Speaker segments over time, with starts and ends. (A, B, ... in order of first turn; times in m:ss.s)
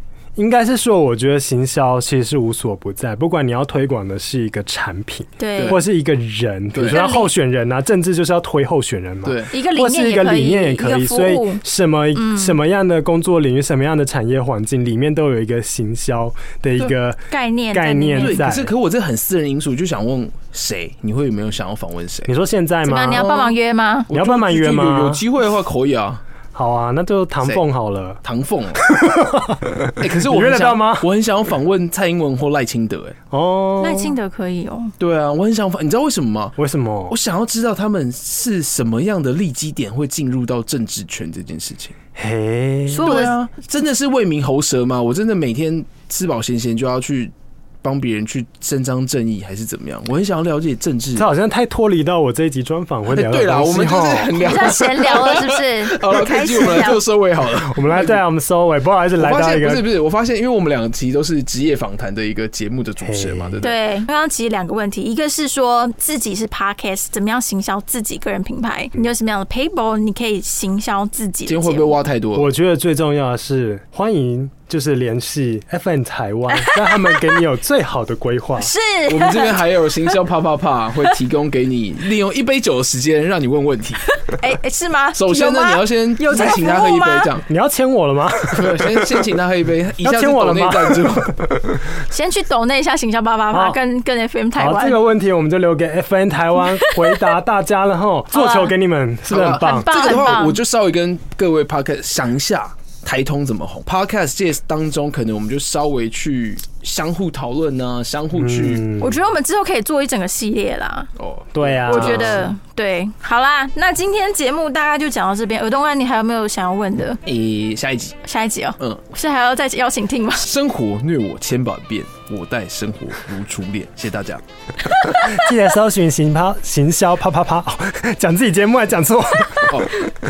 0:00.4-0:18.7 A
0:05.4-0:05.8 B
0:06.7-0:07.0 C
0:06.8-0:07.3 B
0:09.2-0:09.5 C
0:09.5-0:11.6 B
0:12.2-0:12.6 B
0:17.3-0:18.4 B
0:18.2-0:22.3 C
0:22.2-0:23.3 A
0:22.8-0:24.1 B
0:23.1-0:23.5 C
0:24.1-0:26.2 C
0:24.1-0:25.2 A
0:26.5-0:28.2 A
0:28.2-0:28.8 C
0:28.8-0:31.1 A
0:30.0-0:33.1 C
0:33.3-0:34.1 A
0:33.8-0:34.9 B
0:35.0-0:36.6 C
0:36.6-0:37.2 A
0:37.1-0:41.9 C
0:42.2-0:43.1 A
0:42.9-0:43.3 B
0:43.0-0:51.3 C
0:51.2-0:54.4 A
0:53.1-0:58.2 C
0:54.3-0:57.0 B
0:57.6-0:59.8 A
0:59.2-1:03.8 C
1:03.0-1:03.6 A
1:03.6-1:12.0 B
1:11.4-1:12.5 C
1:12.3-1:18.7 A
1:16.6-1:17.1 B
1:18.6-1:20.1 B
1:19.1-1:24.1 C
1:24.1-1:27.3 B
1:25.1-1:27.4 C
1:27.5-1:29.1 A
1:28.5-1:31.4 C
1:30.0-1:31.8 A
1:32.1-1:35.0 B
1:33.5-1:33.8 A
1:34.6-1:39.9 A
1:38.3-1:38.7 B
1:39.3-1:48.8 C
1:39.4-1:40.6 B
1:48.3-1:49.1 A
1:49.0-1:51.1 B
1:51.2-1:52.5 C
1:51.5-1:52.4 A
1:51.9-1:57.2 B
1:57.2-1:58.2 C
1:58.2-2:00.4 B
2:00.3-2:04.4 C
2:04.9-2:05.4 B
2:05.1-2:09.7 A